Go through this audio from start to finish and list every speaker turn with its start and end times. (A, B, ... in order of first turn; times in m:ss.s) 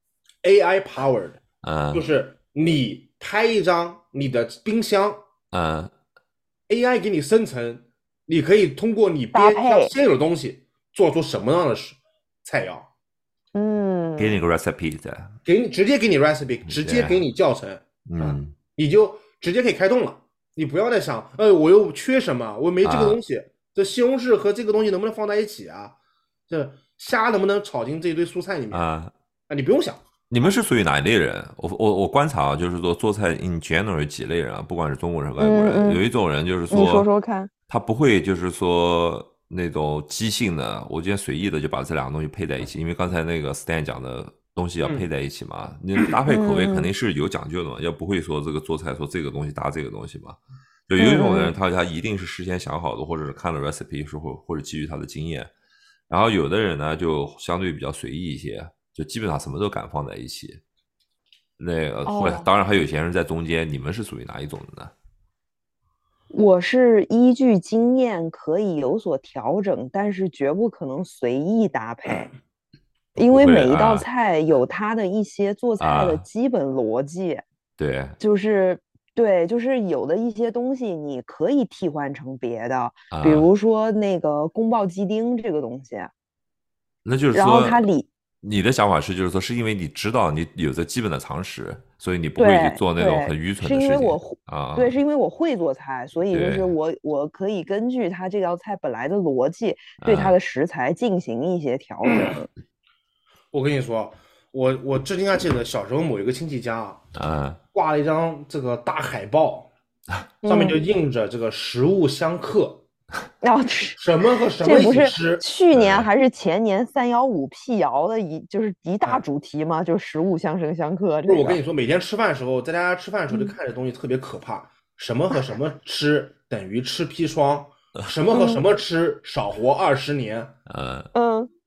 0:00.4-0:01.4 A
0:01.6-0:02.1 B
0:01.9-0:05.2 A
0:05.5-0:05.9 B
0:06.7-0:12.9 A
0:09.3-0:09.9 C
0:13.6-0:14.4 C
0:14.2-0:15.4 B
0:15.4-0:26.0 A
0:16.7-0:17.2 B
0:18.1-0:18.6 B
0:22.8-0:23.2 B
0:26.5-0:28.8 A
0:28.7-0:29.1 B
0:29.5-0:30.0 A
0:30.3-0:37.1 B
0:35.4-0:36.0 C
0:36.7-0:37.5 C
0:37.7-0:55.5 B
0:46.3-0:46.9 C
0:51.0-0:51.5 C
0:56.1-1:00.6 B
1:01.6-1:04.9 B
1:02.1-1:02.5 C
1:06.3-1:12.3 C
1:13.2-1:17.4 C
1:13.2-1:14.1 B
1:15.8-1:16.2 B
1:17.8-1:18.2 B
1:18.2-1:26.1 C
1:23.1-1:23.5 B
1:27.0-1:27.8 B
1:27.3-1:28.1 C
1:28.4-1:35.0 B
1:32.4-1:42.5 C
1:36.3-1:36.7 B
1:40.0-1:40.4 B
1:43.5-1:47.0 A
1:47.2-1:47.6 B
1:47.7-1:49.7 A
1:50.4-1:50.8 C
1:50.4-1:52.8 A
1:53.4-1:54.0 C
1:54.0-1:55.4 A
1:54.6-2:01.6 C
1:55.7-1:56.1 B
2:01.3-2:10.5 A
2:08.3-2:08.6 C
2:10.7-2:11.1 B
2:11.1-2:11.5 C